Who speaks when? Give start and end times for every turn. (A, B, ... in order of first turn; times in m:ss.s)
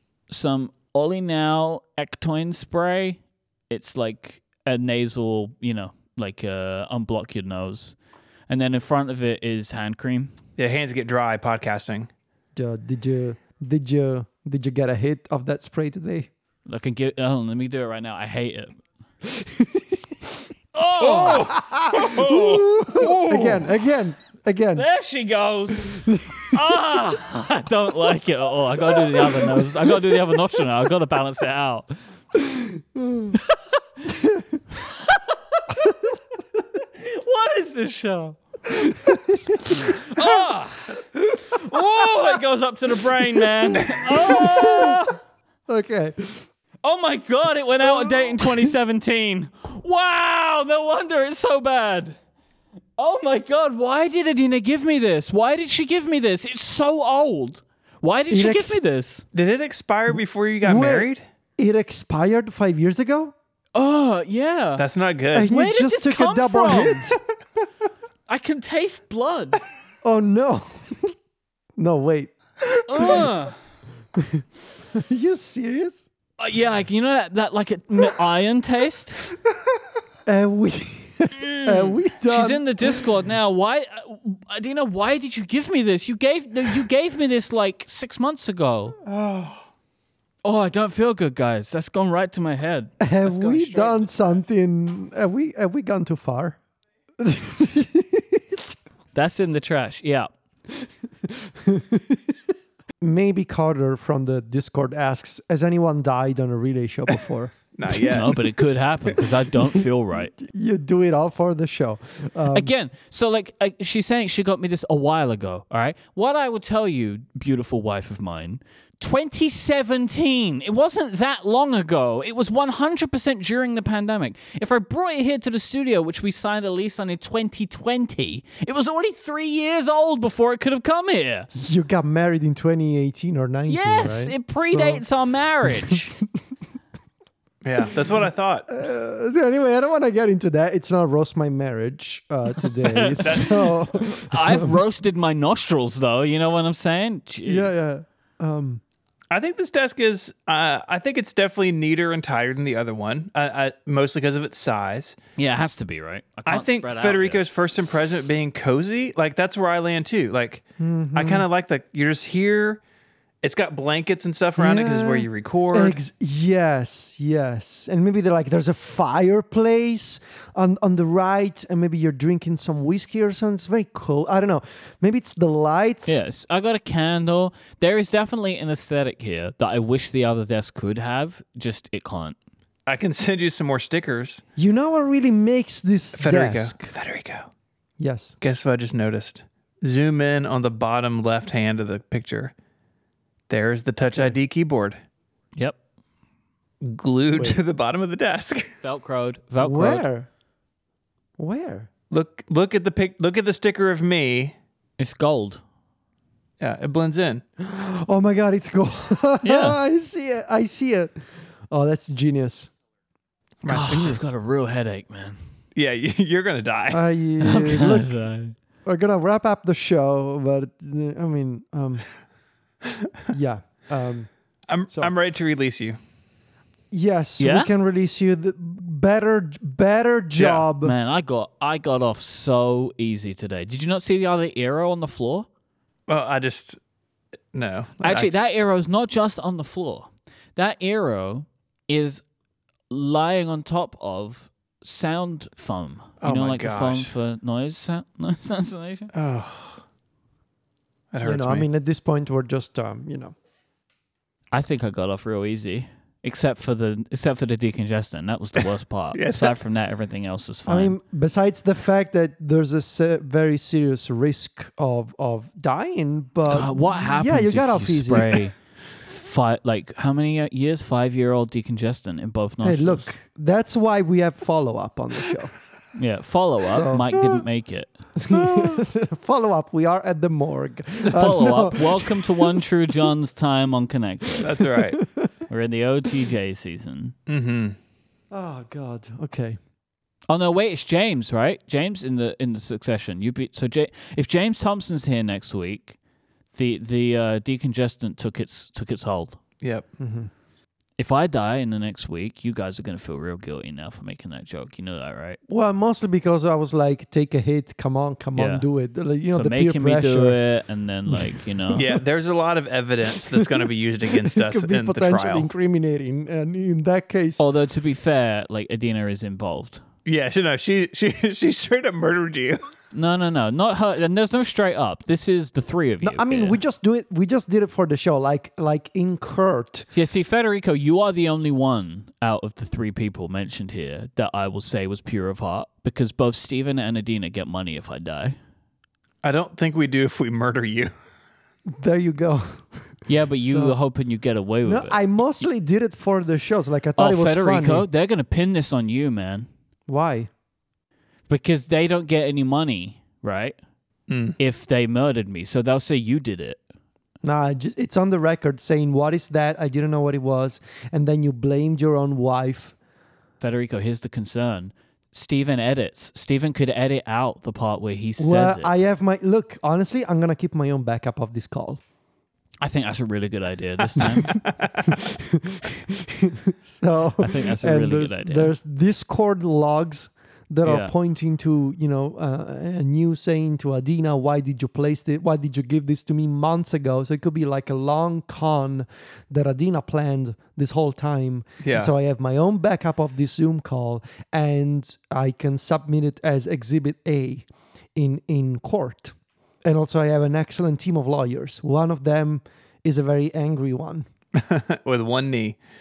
0:00.3-0:08.0 A
0:08.5-0:10.3 A
0:10.6-0:12.1 B
0:12.6-0:16.3 C
0:16.6-0:18.8 A
0:19.2-0:20.4 C
0:20.7-0:21.5 A
0:21.0-0:22.7 B
0:21.1-0:24.9 C
0:22.9-0:23.7 A
0:24.7-0:31.9 A
0:25.8-0:26.6 C
0:28.9-0:29.6 C
0:32.4-0:33.4 C
0:33.3-0:33.6 A
0:34.1-0:34.5 C
0:34.7-0:35.9 A
0:37.0-0:38.4 A
0:38.7-0:40.0 C
0:39.7-0:45.2 A
0:41.2-0:41.8 C
0:43.4-0:45.1 C
0:45.7-0:46.5 C
0:46.8-0:52.2 A
0:47.8-0:48.7 C
0:53.0-0:59.2 A
0:58.3-0:58.8 C
0:59.3-1:01.2 B
1:00.6-1:03.3 C
1:03.7-1:04.8 A
1:04.8-1:05.5 B
1:05.3-1:07.2 C
1:05.4-1:07.1 A
1:08.3-1:09.6 A
1:10.0-1:11.1 C
1:11.8-1:13.3 C
1:12.9-1:13.6 A
1:14.1-1:16.1 C
1:16.4-1:19.2 A
1:20.2-1:23.0 C
1:21.3-1:29.0 A
1:29.0-1:29.6 C
1:30.4-1:34.4 A
1:33.0-1:36.6 C
1:37.2-1:38.7 C
1:39.1-1:40.3 A
1:40.8-1:42.4 C
1:43.0-1:48.2 C
1:47.7-1:48.6 B
1:48.1-1:50.3 A
1:50.4-1:52.7 C
1:52.5-2:11.5 A
2:11.6-2:15.0 C
2:13.7-2:16.1 A
2:15.7-2:15.9 C
2:17.6-2:18.7 B
2:18.7-2:24.8 C
2:22.6-2:27.8 A
2:23.2-2:23.6 B
2:27.4-2:28.8 C
2:29.3-2:35.2 B
2:35.4-2:37.4 A
2:36.5-2:40.6 B
2:40.8-2:41.5 C
2:41.1-2:42.8 B
2:43.4-2:46.0 B
2:44.6-2:56.2 C
2:56.0-3:02.4 A
3:02.9-3:04.4 B
3:04.6-3:06.9 C
3:06.2-3:07.5 B
3:08.0-3:08.4 C
3:08.4-3:12.5 B
3:13.5-3:15.0 B
3:16.8-3:18.7 B
3:18.8-3:20.1 A
3:19.6-3:20.3 C
3:21.4-3:21.9 C
3:22.1-3:24.5 B
3:25.0-3:25.6 A
3:26.6-3:27.4 B
3:27.6-3:31.1 C
3:29.4-3:29.8 A
3:31.7-3:32.7 C
3:33.6-3:34.2 B
3:33.6-3:35.4 A
3:33.7-3:34.2 C
3:35.7-3:37.1 B
3:36.9-3:38.1 C
3:37.4-3:38.5 A
3:38.8-3:42.0 C
3:43.3-3:44.3 C
3:44.7-3:46.0 B
3:46.9-3:50.9 C
3:47.4-3:47.7 A
3:50.4-3:50.7 B
3:50.8-3:55.5 A
3:56.1-3:56.8 B
3:57.5-3:58.4 B
3:58.0-4:02.2 A
4:02.9-4:09.1 A
4:06.2-4:07.1 B
4:09.1-4:09.8 B
4:11.1-4:11.7 B
4:11.2-4:13.3 C
4:14.5-4:21.0 A
4:19.1-4:19.6 B
4:20.6-4:28.4 C
4:26.5-4:33.1 A
4:32.6-4:35.5 C
4:35.9-4:37.9 A
4:36.7-4:37.4 C
4:38.2-4:42.6 C
4:41.1-4:44.5 A
4:44.4-4:45.0 B
4:44.6-4:45.3 C
4:45.5-4:47.1 A
4:47.3-4:47.8 B
4:48.3-4:49.6 C
4:50.3-4:56.0 A
4:56.5-4:59.4 A
4:59.6-4:59.9 B
5:00.0-5:00.3 C
5:01.0-5:05.4 A
5:05.5-5:10.4 C
5:08.3-5:08.6 A
5:09.3-5:11.8 A
5:11.1-5:12.0 C
5:11.7-5:15.5 B
5:13.2-5:17.4 C
5:17.4-5:19.8 A
5:20.0-5:22.6 B
5:22.9-5:26.6 A
5:26.0-5:29.9 C
5:29.9-5:38.4 A
5:39.2-5:40.9 B
5:41.7-5:43.8 C
5:43.1-5:45.0 A
5:44.6-5:47.9 C
5:47.0-5:49.5 A
5:49.9-5:50.3 C
5:51.3-5:53.6 A
5:54.1-5:54.4 B
5:54.4-5:56.6 A
5:57.2-6:02.7 C
6:03.4-6:08.7 A
6:08.2-6:11.8 C
6:12.6-6:14.4 A
6:14.0-6:44.1 C
6:14.3-6:14.9 B
6:17.2-6:18.5 A
6:20.6-6:20.9 A
6:31.6-6:31.9 B
6:44.3-6:45.6 B